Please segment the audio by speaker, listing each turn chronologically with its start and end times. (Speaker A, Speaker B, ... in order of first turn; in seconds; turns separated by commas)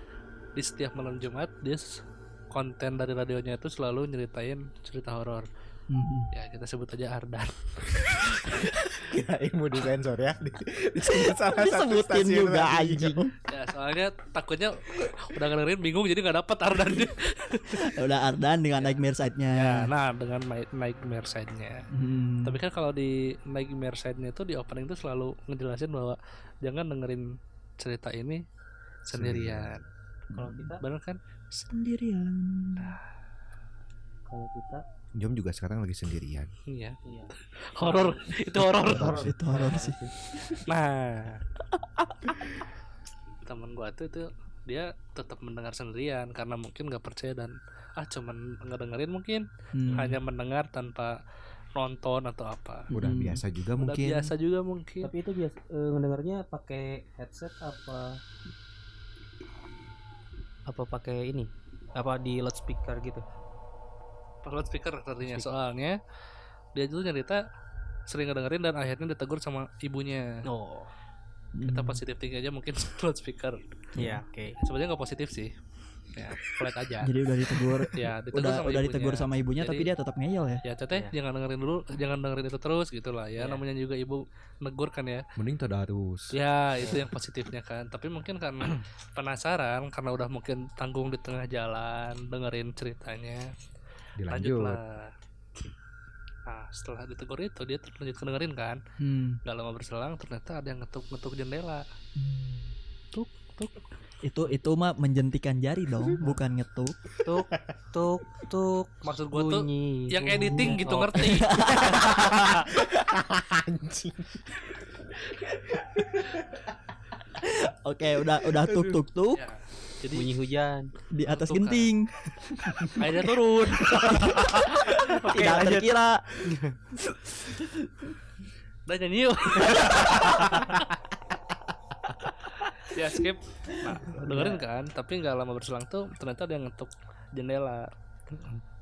Speaker A: 0.5-5.5, Speaker B: 5.9-6.3, Speaker A: 6.3-8.7, Speaker C: 8.9-13.3, Speaker B: 11.0-13.3, Speaker A: 13.5-17.8, Speaker B: 17.7-19.9, Speaker A: 19.5-21.9, Speaker B: 21.9-22.6, Speaker A: 22.4-27.3, Speaker A: 27.8-28.4, Speaker A: 29.0-29.8, Speaker C: 29.1-29.8, Speaker D: 30.3-30.8, Speaker A: 30.7-31.2, Speaker B: 31.5-33.0, Speaker D: 34.2-34.8, Speaker C: 35.1-36.5, Speaker A: 36.7-39.2, Speaker D: 37.0-37.3, Speaker D: 37.8-38.3, Speaker C: 38.8-39.3, Speaker D: 38.9-40.3, Speaker B: 39.1-40.6, Speaker A: 40.6-41.4, Speaker A: 43.4-51.2, Speaker B: 49.7-50.2, Speaker A: 51.8-52.9, Speaker B: 52.9-53.4, Speaker C: 52.9-54.1, Speaker A: 53.8-55.1, Speaker D: 55.0-58.2, Speaker D: 60.7-63.2, Speaker A: 64.4-66.0, Speaker D: 65.2-65.5, Speaker A: 66.7-67.4, Speaker A: 68.1-70.3, Speaker D: 70.5-70.9, Speaker B: 71.6-72.0, Speaker A: 71.7-73.6, Speaker B: 74.0-74.2, Speaker D: 74.0-74.6, Speaker A: 74.6-75.5, Speaker A: 76.1-77.1, Speaker B: 77.0-80.6, Speaker A: 77.9-79.9, Speaker A: 80.6-85.2, Speaker D: 83.4-83.6, Speaker C: 85.4-86.3, Speaker A: 86.3-93.5, Speaker D: 86.8-87.1, Speaker C: 94.2-94.8, Speaker A: 94.3-95.1, Speaker A: 96.5-98.8, Speaker B: 99.0-99.4, Speaker A: 99.4-101.8, Speaker B: 102.2-102.8, Speaker D: 103.1-103.8, Speaker B: 104.2-107.0, Speaker C: 107.1-107.7, Speaker D: 107.2-112.4, Speaker A: 109.0-111.8, Speaker B: 110.5-112.0, Speaker C: 111.8-116.7, Speaker B: 117.3-119.4, Speaker C: 118.6-119.0, Speaker A: 119.3-120.4, Speaker D: 120.1-120.9, Speaker B: 121.1-123.2, Speaker A: 121.2-121.9, Speaker A: 122.9-125.6, Speaker B: 123.8-126.4, Speaker D: 125.2-125.9, Speaker D: 126.4-126.8, Speaker B: 127.5-128.0, Speaker A: 128.9-130.8, Speaker A: 132.8-137.9, Speaker B: 134.1-134.6, Speaker D: 138.3-138.6